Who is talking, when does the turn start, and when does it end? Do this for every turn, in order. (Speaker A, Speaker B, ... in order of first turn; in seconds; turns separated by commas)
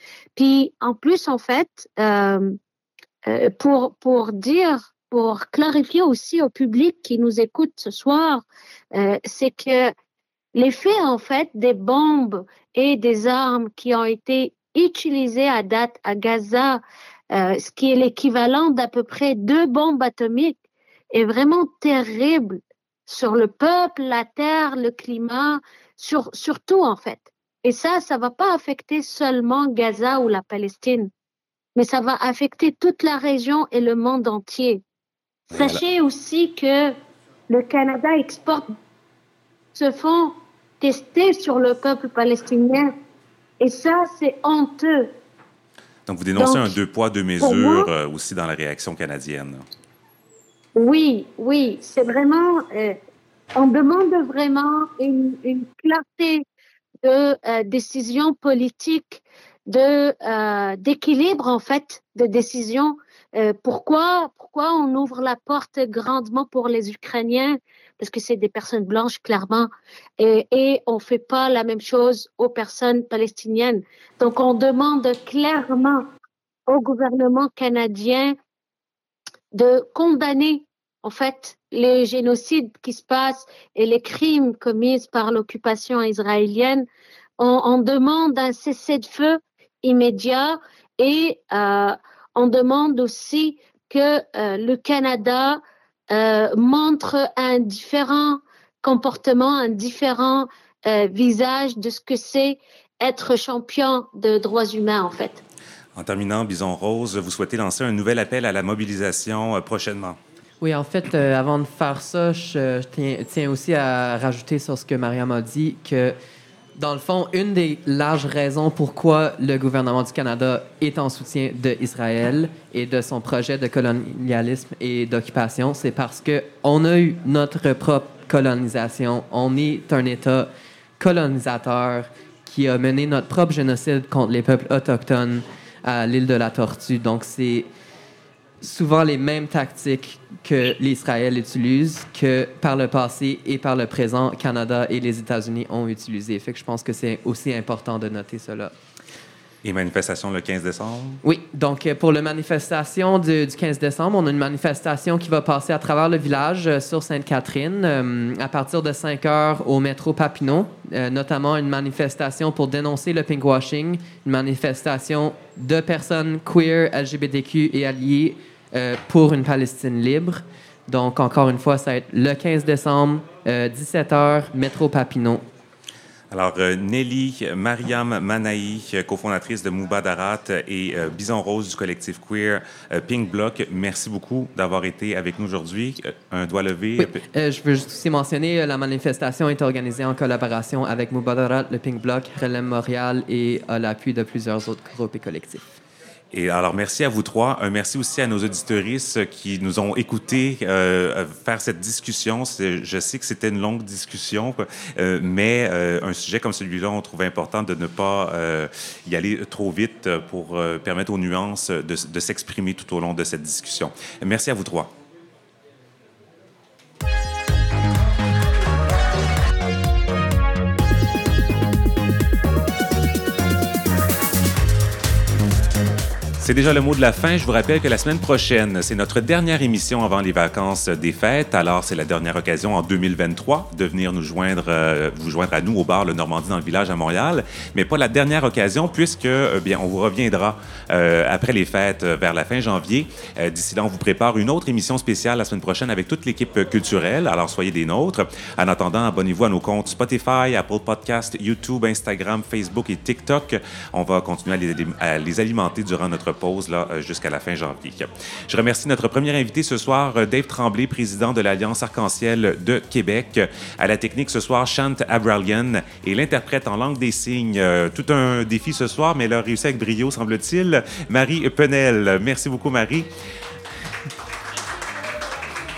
Speaker A: 0.3-2.6, Speaker A: 3.2-9.9, Speaker A: 10.5-20.6, Speaker A: 21.1-31.1, Speaker A: 31.8-34.8, Speaker B: 35.5-35.8, Speaker A: 35.5-36.9, Speaker A: 37.5-38.7, Speaker A: 39.7-42.9, Speaker A: 43.6-45.1, Speaker B: 46.1-49.6, Speaker A: 46.4-46.8, Speaker A: 47.4-47.9, Speaker A: 50.8-53.0, Speaker A: 53.5-56.4, Speaker A: 57.0-76.0, Speaker A: 76.7-78.3, Speaker A: 79.5-86.8, Speaker A: 87.4-105.4, Speaker B: 106.0-110.2, Speaker C: 110.6-116.1, Speaker C: 116.8-130.5, Speaker C: 131.0-137.7, Speaker C: 138.6-148.7, Speaker B: 149.6-151.2, Speaker C: 151.2-175.4, Speaker B: 176.3-187.2, Speaker C: 187.0-195.6, Speaker B: 196.3-214.9, Speaker B: 226.4-273.1